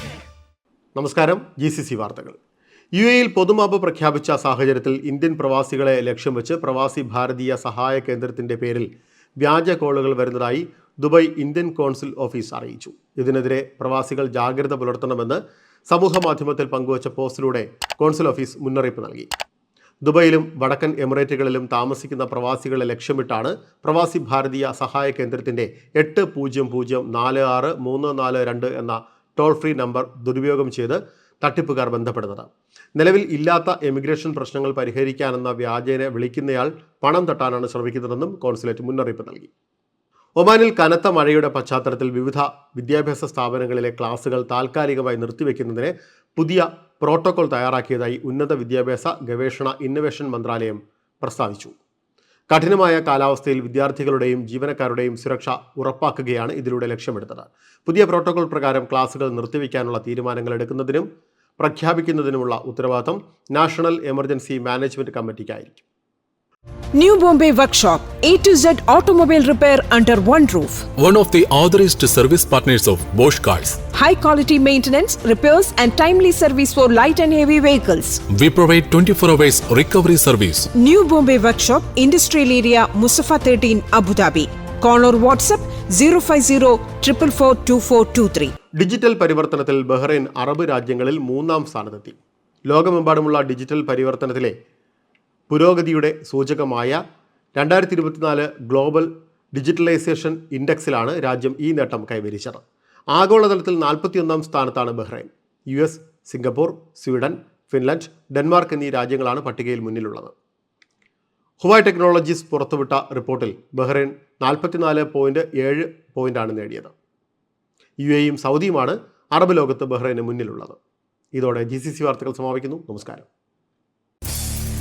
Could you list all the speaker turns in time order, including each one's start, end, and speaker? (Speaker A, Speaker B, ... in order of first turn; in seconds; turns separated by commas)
Speaker A: 0.9-2.4, Speaker A: 2.9-8.9, Speaker A: 9.4-19.3, Speaker A: 20.0-39.5, Speaker A: 40.4-51.7, Speaker A: 52.5-61.1, Speaker A: 61.6-65.8, Speaker B: 66.9-70.9, Speaker C: 71.0-73.8, Speaker B: 73.9-78.2, Speaker C: 78.3-80.7, Speaker B: 80.7-88.5, Speaker A: 88.8-92.2, Speaker A: 92.7-94.5, Speaker A: 95.5-97.0, Speaker A: 97.5-110.3, Speaker A: 111.6-116.9, Speaker A: 118.0-120.8, Speaker A: 121.3-123.3